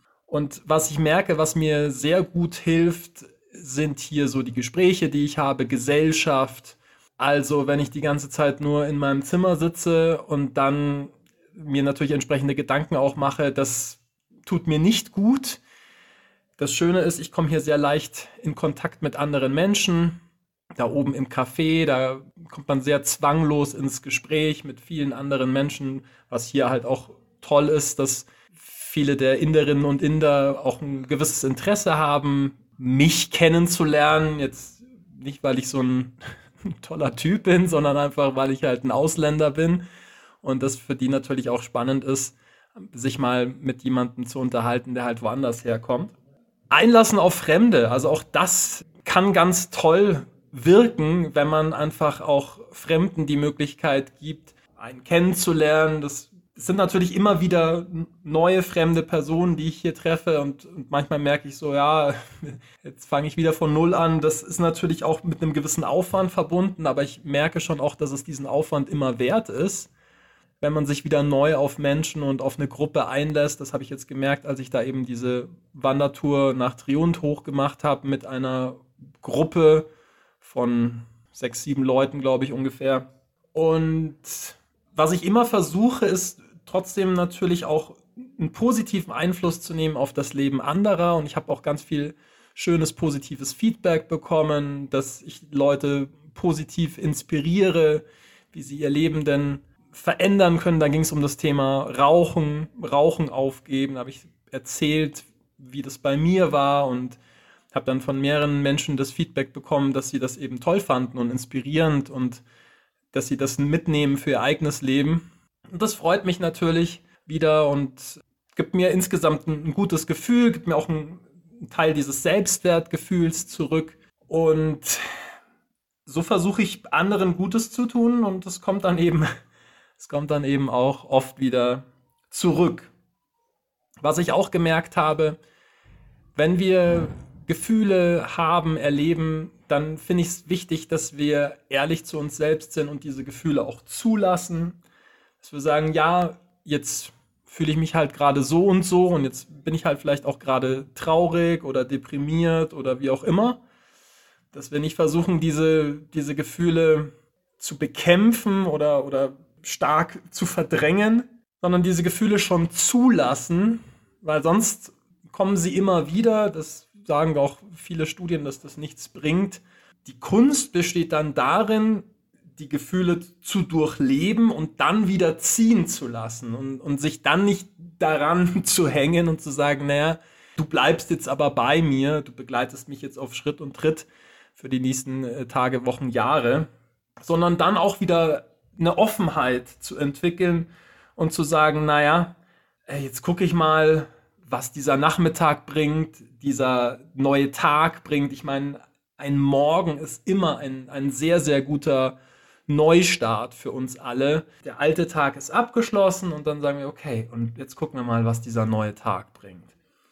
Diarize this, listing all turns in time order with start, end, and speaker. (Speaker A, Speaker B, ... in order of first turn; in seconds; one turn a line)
Speaker A: 0.3-15.6
Speaker A: 16.6-20.2
Speaker A: 20.8-36.1
Speaker A: 36.6-39.8
Speaker A: 40.4-46.1
Speaker A: 46.7-69.9
Speaker A: 70.6-79.9
Speaker A: 80.4-107.2
Speaker A: 107.7-112.4
Speaker A: 113.1-125.0
Speaker A: 126.0-129.3
Speaker A: 130.0-132.9
Speaker A: 134.0-135.4
Speaker A: 136.3-144.8
Speaker A: 145.4-153.6
Speaker A: 154.5-186.7
Speaker A: 187.2-202.2
Speaker A: 202.7-209.7